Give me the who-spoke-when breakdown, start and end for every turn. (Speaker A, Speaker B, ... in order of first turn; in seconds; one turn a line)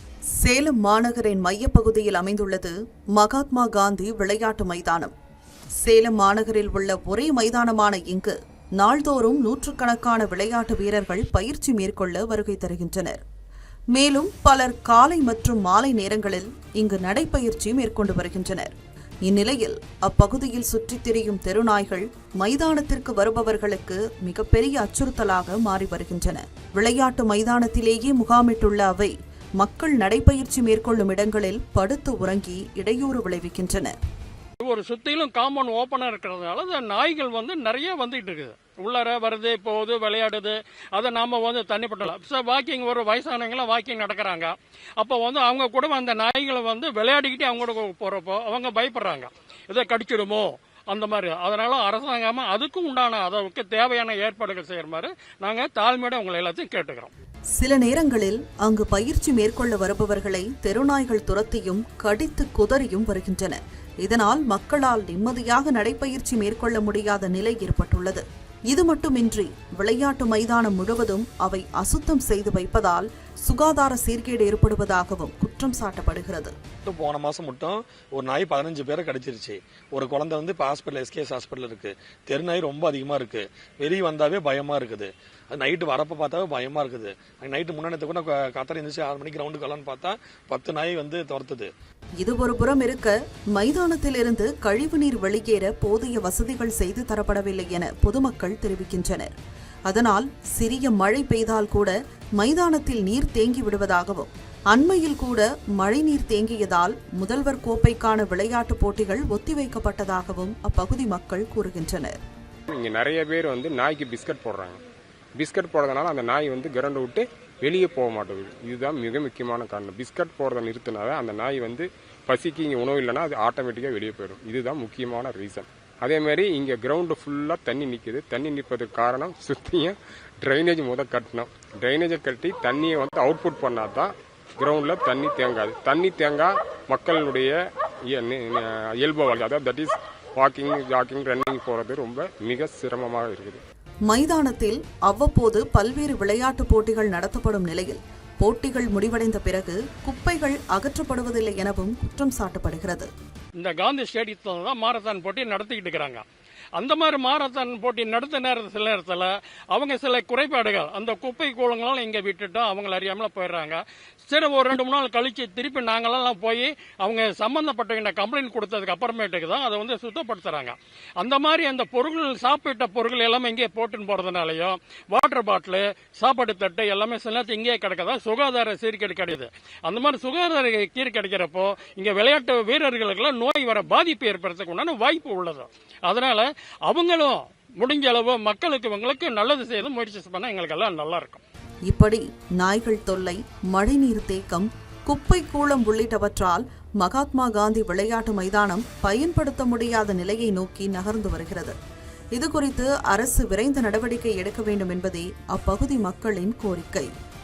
Speaker A: 0.4-5.1
Speaker A: 5.8-13.2
Speaker A: 13.9-18.7
Speaker A: 19.2-33.9
Speaker B: 34.6-57.1
Speaker A: 57.6-76.5
Speaker C: 76.8-91.7
Speaker A: 92.2-99.3
Speaker A: 99.9-112.2
Speaker D: 112.7-114.8
Speaker D: 115.4-137.5
Speaker D: 138.1-143.6
Speaker A: 144.1-153.1
Speaker B: 153.6-156.2
Speaker B: 156.8-191.4
Speaker A: 191.8-201.8
Speaker A: 202.3-207.1